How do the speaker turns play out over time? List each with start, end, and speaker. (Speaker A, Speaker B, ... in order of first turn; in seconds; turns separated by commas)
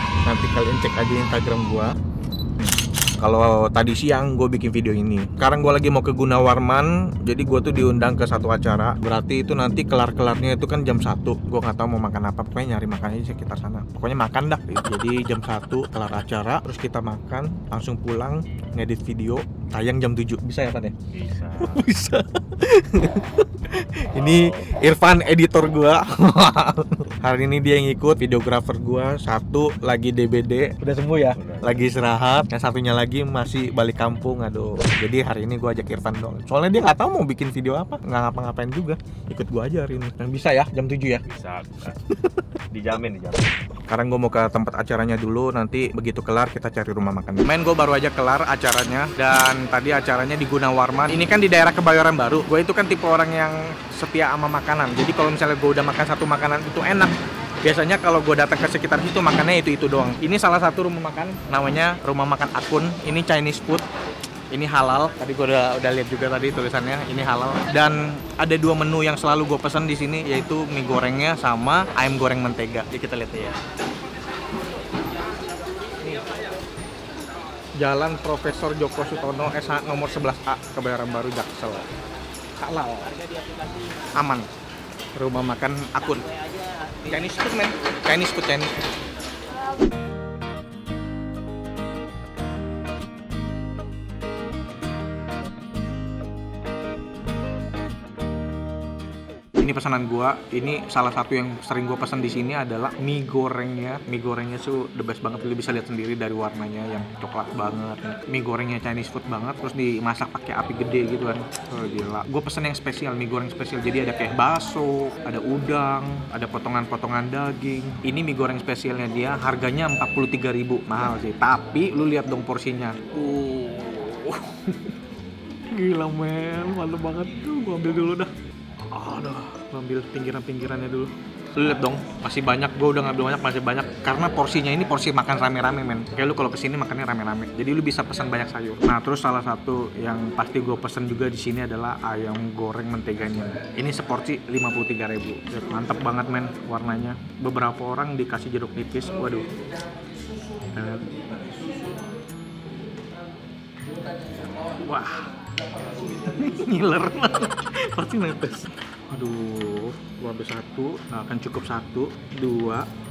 Speaker A: 0.2-1.9, Speaker A: 2.6-21.0, Speaker B: 21.1-21.8, Speaker A: 21.6-41.2, Speaker B: 24.4-24.7, Speaker B: 31.4-31.8, Speaker B: 41.3-42.0, Speaker A: 42.1-42.4, Speaker B: 42.7-43.5, Speaker A: 43.9-63.8, Speaker A: 64.5-73.6, Speaker A: 77.8-81.9, Speaker A: 82.6-83.2, Speaker A: 84.2-84.5, Speaker A: 85.2-86.3, Speaker A: 87.0-88.7, Speaker A: 99.6-124.9, Speaker A: 125.7-128.3, Speaker A: 128.9-149.5, Speaker A: 150.7-151.6, Speaker A: 154.7-155.3, Speaker A: 155.9-162.8